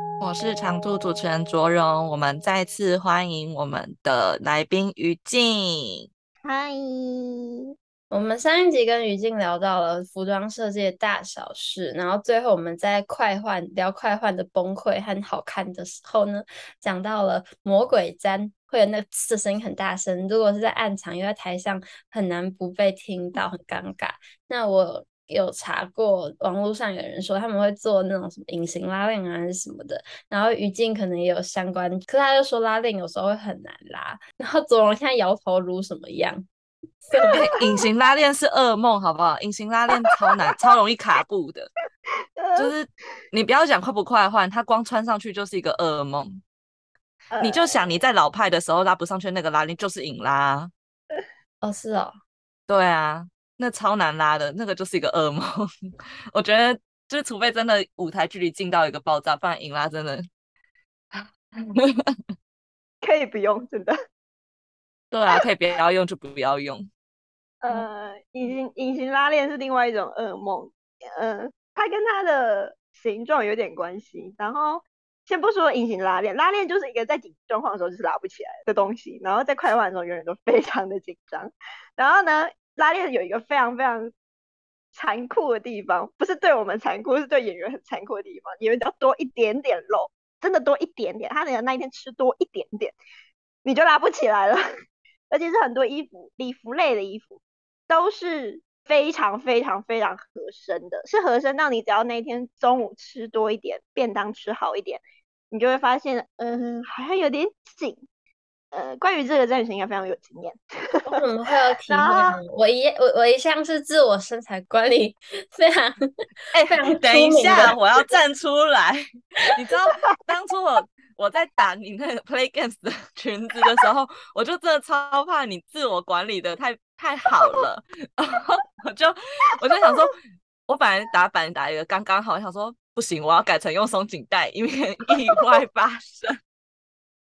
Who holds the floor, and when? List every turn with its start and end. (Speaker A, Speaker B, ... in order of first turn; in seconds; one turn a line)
Speaker A: 0.2-6.1
Speaker B: 6.4-7.5
Speaker C: 8.1-36.5
Speaker C: 37.1-37.4
Speaker B: 37.2-37.6
Speaker A: 37.3-41.7
Speaker B: 42.4-42.7
Speaker A: 42.5-46.4
Speaker B: 47.3-48.0
Speaker A: 47.4-50.7
Speaker C: 51.6-52.1
Speaker A: 52.7-55.7
Speaker A: 56.3-60.3
Speaker A: 61.1-61.9
Speaker B: 63.0-63.9
Speaker A: 65.1-66.9
Speaker B: 67.6-84.1
Speaker B: 84.9-93.0
Speaker B: 93.6-94.6
Speaker B: 95.3-108.0
Speaker B: 108.7-110.6
Speaker C: 111.0-116.0
Speaker B: 111.9-112.4
Speaker A: 116.5-136.3
Speaker C: 116.7-117.7